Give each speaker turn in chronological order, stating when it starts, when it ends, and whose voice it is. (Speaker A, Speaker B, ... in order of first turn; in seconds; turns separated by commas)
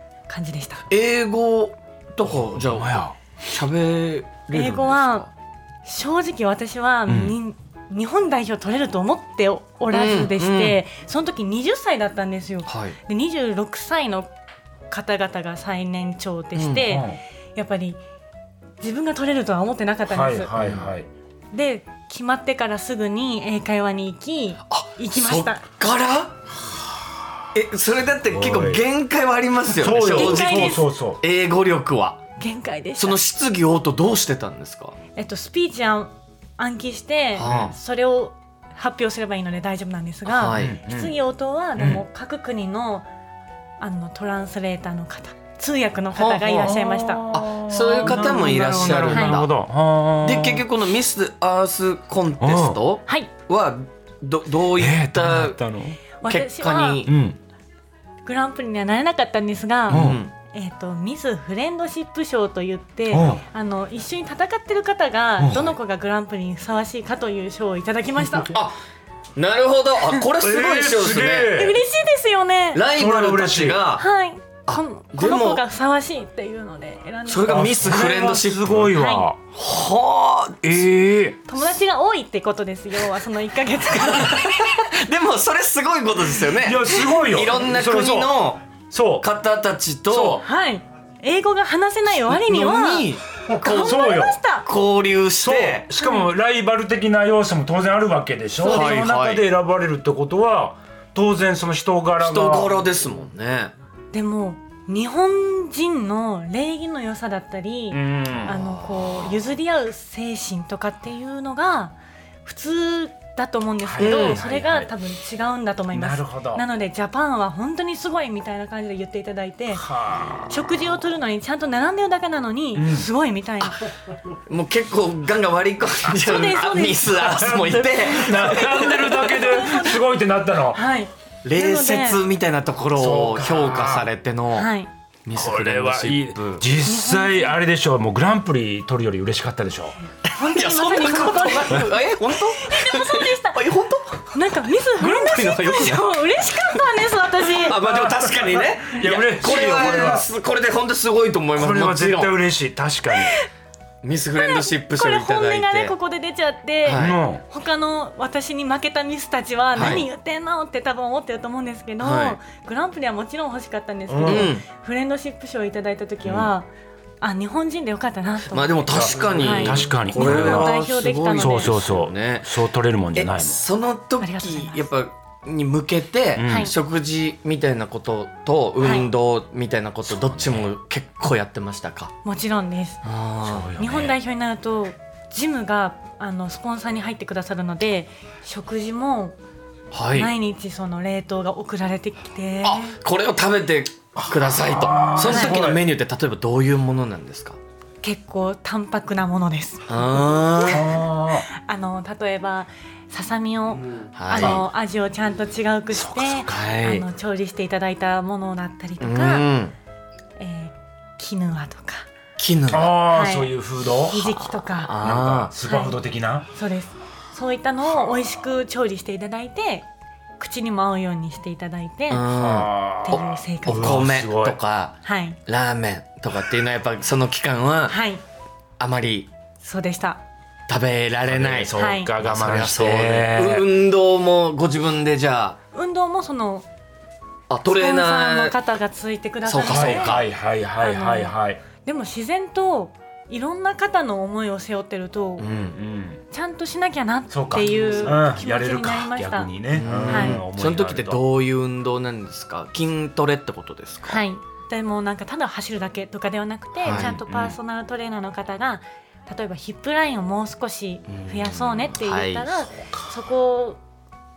Speaker A: 0.3-0.8, Speaker B: 0.9-5.3, Speaker C: 2.2-3.1, Speaker A: 4.5-5.3, Speaker A: 5.8-14.3, Speaker C: 7.1-7.4, Speaker B: 9.9-10.8, Speaker B: 12.7-13.0, Speaker A: 14.9-18.0, Speaker B: 16.6-16.9, Speaker C: 16.8-17.2, Speaker A: 18.8-20.5, Speaker C: 20.1-21.1, Speaker B: 20.6-20.9, Speaker A: 21.5-25.6, Speaker B: 24.7-26.3, Speaker B: 27.5-32.2, Speaker C: 28.3-28.8, Speaker C: 29.8-31.2, Speaker A: 30.0-30.9, Speaker A: 32.4-33.2, Speaker B: 33.0-35.0, Speaker A: 35.1-43.1, Speaker B: 37.4-37.8, Speaker C: 37.4-37.7, Speaker B: 40.3-40.8, Speaker C: 40.5-41.2, Speaker C: 41.8-42.0, Speaker A: 43.8-47.3, Speaker B: 46.1-46.7, Speaker C: 46.5-50.7, Speaker B: 47.3-49.5, Speaker A: 49.1-49.4, Speaker B: 50.2-55.6, Speaker C: 52.4-52.8, Speaker A: 53.1-53.3, Speaker C: 54.8-56.0, Speaker A: 56.2-57.1, Speaker B: 56.2-57.1, Speaker C: 57.0-57.4, Speaker A: 58.2-68.5, Speaker B: 59.9-60.3, Speaker C: 59.9-60.2, Speaker C: 63.1-63.4, Speaker C: 65.4-65.7, Speaker B: 68.5-68.8, Speaker B: 69.4-71.6, Speaker C: 70.4-71.8, Speaker A: 71.5-72.8, Speaker B: 72.8-74.0, Speaker C: 72.9-73.8, Speaker A: 74.0-77.7, Speaker B: 74.7-75.6, Speaker B: 77.3-78.9, Speaker C: 77.5-79.4, Speaker A: 78.9-79.3, Speaker B: 79.5-81.0, Speaker C: 80.6-81.4, Speaker A: 81.5-84.5, Speaker B: 84.0-88.7, Speaker C: 86.6-89.3, Speaker B: 89.2-90.4, Speaker C: 90.1-90.4, Speaker A: 90.4-94.7, Speaker B: 92.1-94.0, Speaker C: 93.5-94.4, Speaker B: 94.7-95.9, Speaker C: 95.4-102.7, Speaker A: 96.0-96.3, Speaker A: 98.6-98.9, Speaker B: 98.6-99.5, Speaker B: 102.2-103.7, Speaker A: 104.1-119.8, Speaker C: 107.9-108.6, Speaker B: 108.4-109.3, Speaker C: 113.8-114.9, Speaker B: 114.0-114.5, Speaker C: 115.9-116.6, Speaker C: 119.7-120.5, Speaker A: 120.5-123.8, Speaker C: 122.8-123.1, Speaker B: 124.5-129.5, Speaker A: 126.2-127.6, Speaker C: 127.5-130.8, Speaker A: 129.1-130.0, Speaker A: 130.7-132.2, Speaker B: 131.4-134.7, Speaker C: 132.9-134.1, Speaker A: 134.6-134.9, Speaker B: 135.3-136.7, Speaker C: 135.3-140.0, Speaker A: 136.8-137.6, Speaker B: 140.3-144.4, Speaker A: 140.4-142.0, Speaker A: 142.5-143.6, Speaker A: 144.3-147.8, Speaker B: 145.0-152.4, Speaker C: 147.8-150.3, Speaker C: 151.6-153.4, Speaker A: 153.1-153.5, Speaker B: 154.0-155.9, Speaker A: 154.4-166.7, Speaker B: 156.8-157.2, Speaker C: 156.9-157.4, Speaker B: 159.8-160.1, Speaker B: 162.0-162.4, Speaker C: 164.1-164.5, Speaker B: 164.2-164.7, Speaker B: 166.2-166.5, Speaker A: 167.2-171.8, Speaker B: 168.5-172.5, Speaker C: 168.9-173.6, Speaker B: 173.2-182.1, Speaker A: 174.2-174.9, Speaker C: 176.4-176.7, Speaker A: 176.4-176.7, Speaker A: 178.8-179.1, Speaker C: 180.1-180.7, Speaker A: 182.2-183.0, Speaker B: 183.0-183.8, Speaker C: 183.4-184.2, Speaker A: 183.8-189.4, Speaker B: 189.9-190.3, Speaker A: 190.1-192.9, Speaker B: 192.6-197.6, Speaker C: 194.2-195.9, Speaker A: 195.3-195.5, Speaker A: 198.0-199.9, Speaker B: 199.9-200.9, Speaker A: 200.6-209.5, Speaker C: 200.7-201.5, Speaker B: 204.2-204.7, Speaker C: 205.9-206.7, Speaker B: 206.4-207.1, Speaker B: 209.0-209.8, Speaker A: 210.4-212.1, Speaker B: 212.4-213.1, Speaker C: 212.7-214.3, Speaker A: 213.1-214.9, Speaker B: 214.1-215.5, Speaker C: 215.0-216.5, Speaker A: 215.7-216.0, Speaker A: 216.5-219.9, Speaker A: 220.4-222.3, Speaker B: 222.1-225.0, Speaker C: 222.3-224.6, Speaker A: 223.1-224.0, Speaker A: 225.0-225.4, Speaker B: 225.5-228.0, Speaker A: 227.9-228.2, Speaker B: 228.8-229.3, Speaker A: 229.6-230.2, Speaker B: 230.7-235.6, Speaker C: 231.2-233.7, Speaker A: 231.7-232.1, Speaker A: 235.7-236.7, Speaker B: 237.5-238.6, Speaker A: 237.7-240.2, Speaker B: 239.4-240.3, Speaker C: 239.6-241.6, Speaker A: 240.8-241.3, Speaker A: 241.8-245.5, Speaker B: 245.4-245.8, Speaker C: 245.5-246.2, Speaker A: 246.3-249.5, Speaker C: 247.3-251.2, Speaker B: 249.7-254.2, Speaker A: 250.1-250.4, Speaker A: 254.1-263.8, Speaker B: 256.8-257.6, Speaker C: 256.9-257.2, Speaker B: 261.1-262.6